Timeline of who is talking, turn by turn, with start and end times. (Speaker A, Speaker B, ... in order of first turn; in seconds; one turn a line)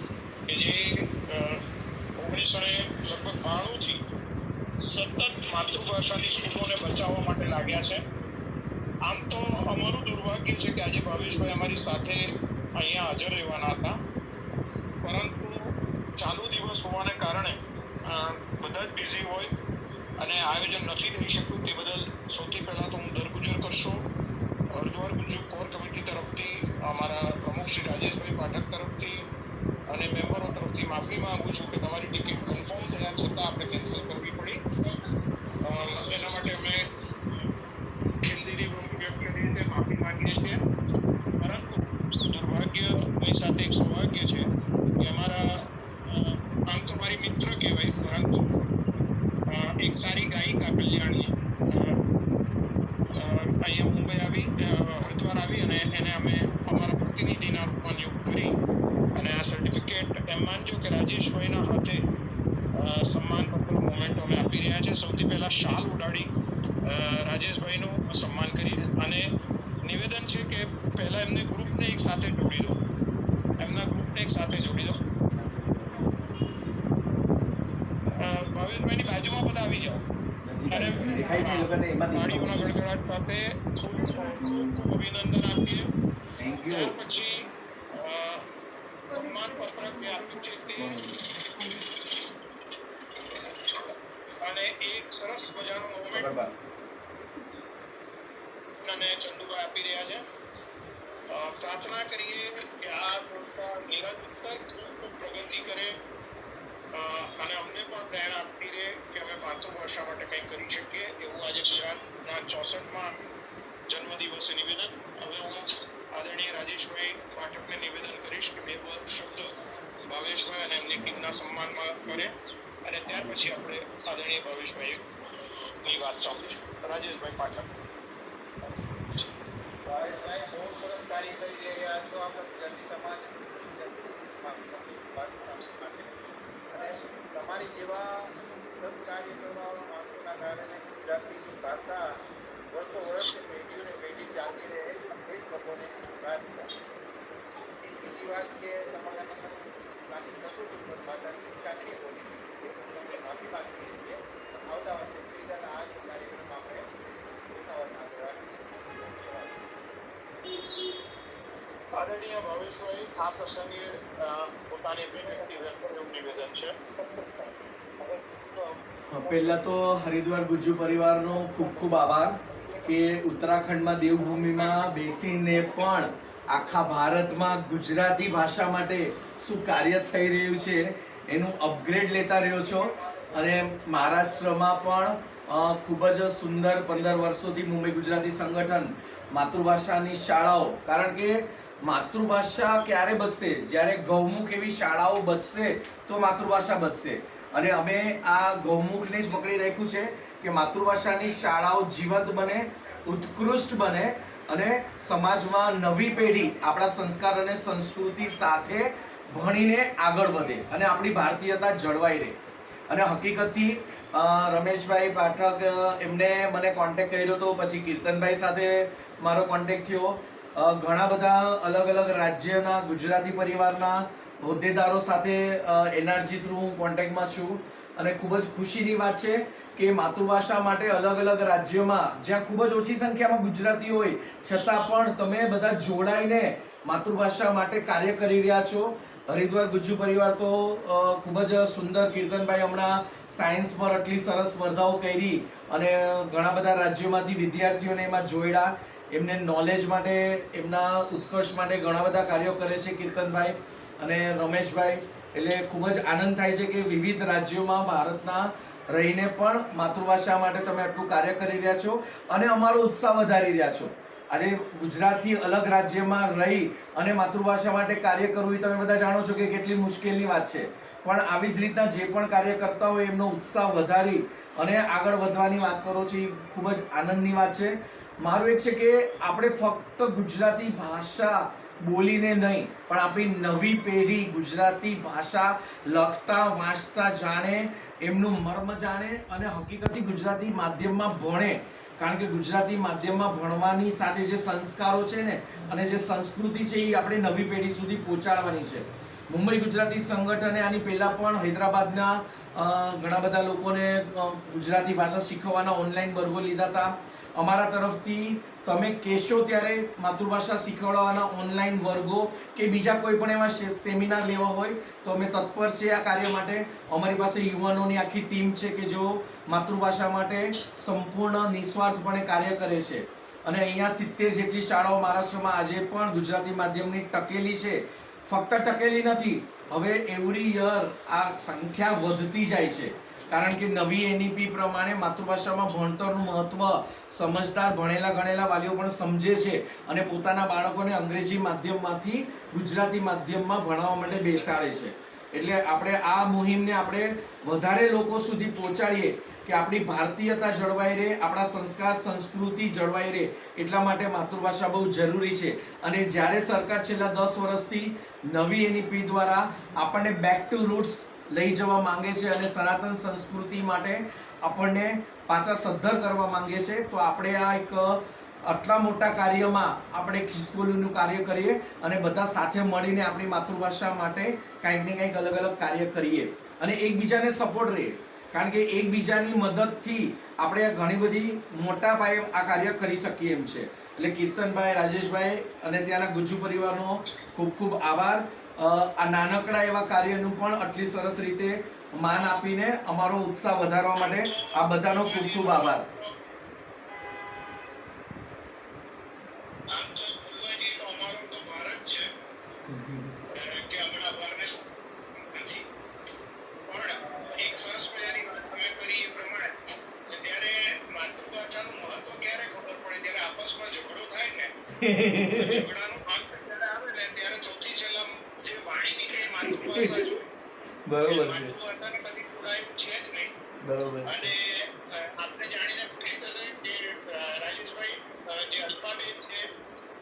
Speaker A: 0.5-1.6
Speaker A: 2.2-4.0
Speaker A: 4.9-8.0
Speaker A: 9.0-12.2
Speaker A: 12.8-14.0
Speaker A: 15.0-19.5
Speaker A: 20.2-24.1
Speaker A: 24.7-29.3
Speaker A: 29.9-34.6
Speaker A: 35.6-36.9
Speaker A: 38.2-40.6
Speaker A: 41.4-48.5
Speaker A: 49.5-52.0
Speaker A: 53.1-58.6
Speaker A: 59.1-62.0
Speaker A: 62.7-66.3
Speaker A: 66.8-69.3
Speaker A: 69.8-72.8
Speaker A: 73.6-75.0
Speaker A: 78.1-80.0
Speaker B: 80.4-82.7
Speaker A: 80.7-85.9
Speaker B: 86.4-87.0
Speaker A: 86.7-88.5
Speaker A: 89.1-92.3
Speaker B: 90.8-91.2
Speaker A: 93.2-96.3
Speaker B: 96.1-96.5
Speaker A: 98.8-100.2
Speaker A: 101.3-105.9
Speaker A: 106.9-113.1
Speaker A: 113.9-119.5
Speaker A: 120.0-127.7
Speaker A: 128.7-129.2
Speaker C: 129.9-138.1
Speaker C: 138.8-142.1
Speaker C: 142.7-146.7
Speaker C: 147.8-156.8
Speaker C: 157.5-159.6
Speaker A: 161.9-169.6
Speaker B: 169.1-212.4
Speaker A: 172.5-172.9
Speaker A: 174.4-174.9
Speaker A: 175.6-176.1
Speaker A: 182.3-184.4
Speaker B: 212.9-395.9
Speaker A: 344.0-344.6
Speaker A: 393.9-396.2
Speaker A: 399.7-402.1
Speaker A: 403.3-404.6
Speaker A: 405.1-405.7
Speaker A: 406.6-414.5
Speaker B: 414.7-415.7
Speaker A: 415.3-420.3
Speaker B: 419.2-420.2
Speaker B: 420.9-421.5
Speaker A: 421.0-423.4
Speaker B: 423.6-424.3
Speaker A: 424.0-429.5